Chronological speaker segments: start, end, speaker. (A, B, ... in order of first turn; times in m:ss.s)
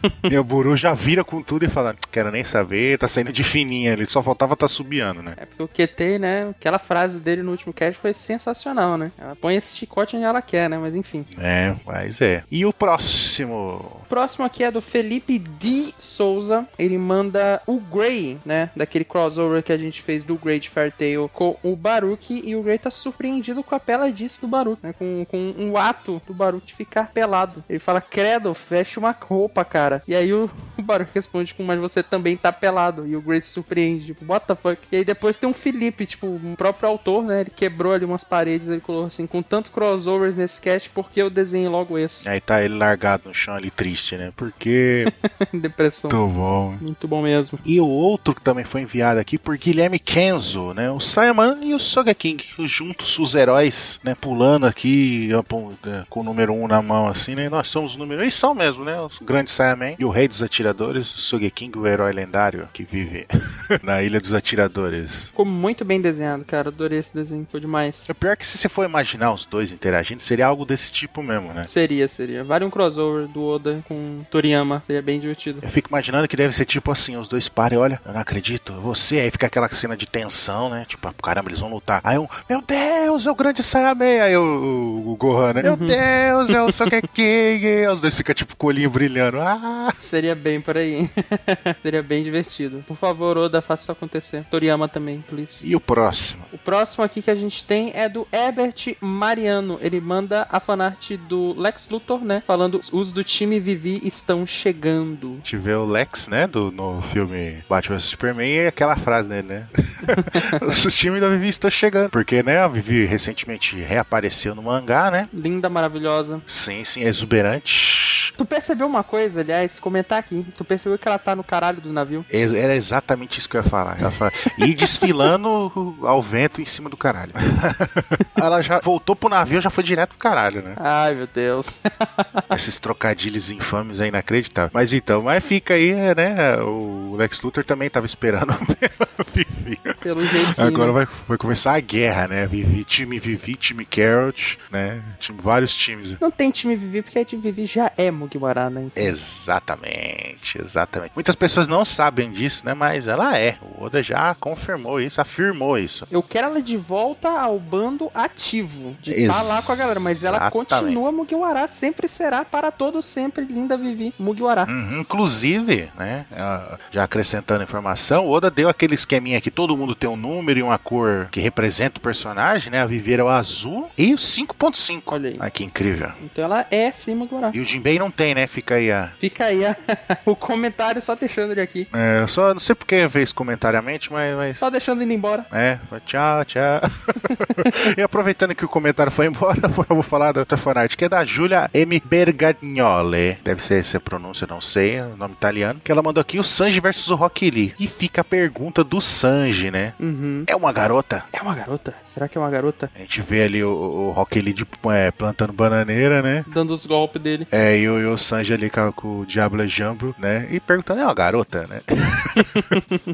0:00.3-0:05.4 A
0:05.4-0:11.3 B
0:11.3-0:14.0 A
0:14.1-0:42.3 B
0:42.2-0:45.1 A
0:45.0-0:46.2 B
0:46.1-0:46.8 A
0:46.8-0:47.6 B
0:47.6-1:05.3 A
1:05.3-1:08.1 B
1:08.1-1:11.7 A
1:11.6-1:15.6 B
1:15.6-1:30.0 A
1:25.6-1:26.9 B
1:30.0-1:35.6 B
1:35.6-1:36.5 A
1:36.5-1:45.4 B
1:45.4-1:55.3 A
1:50.1-1:50.6 B
1:55.3-1:56.4 B
1:56.5-1:58.3 A
1:58.4-2:02.2 B
2:02.3-2:10.8 A
2:10.8-2:12.4 B
2:12.5-2:26.2 A
2:20.0-2:21.0 B
2:26.2-2:29.1 B
2:29.0-2:36.1 A
2:36.1-2:44.7 B
2:39.0-2:41.0 A
2:44.6-2:56.2 A
2:55.1-2:55.4 B
2:56.2-2:57.6 B
2:57.5-2:59.1 A
2:59.2-3:01.9 B
3:01.9-3:04.6 A
3:04.6-3:05.5 B
3:05.5-3:20.0 A
3:20.0-3:20.5 B
3:20.5-3:21.2 A
3:21.3-3:22.9 B
3:22.9-3:26.5 A
3:26.5-3:27.5 B
3:27.5-3:32.5 A
3:32.4-3:32.8 B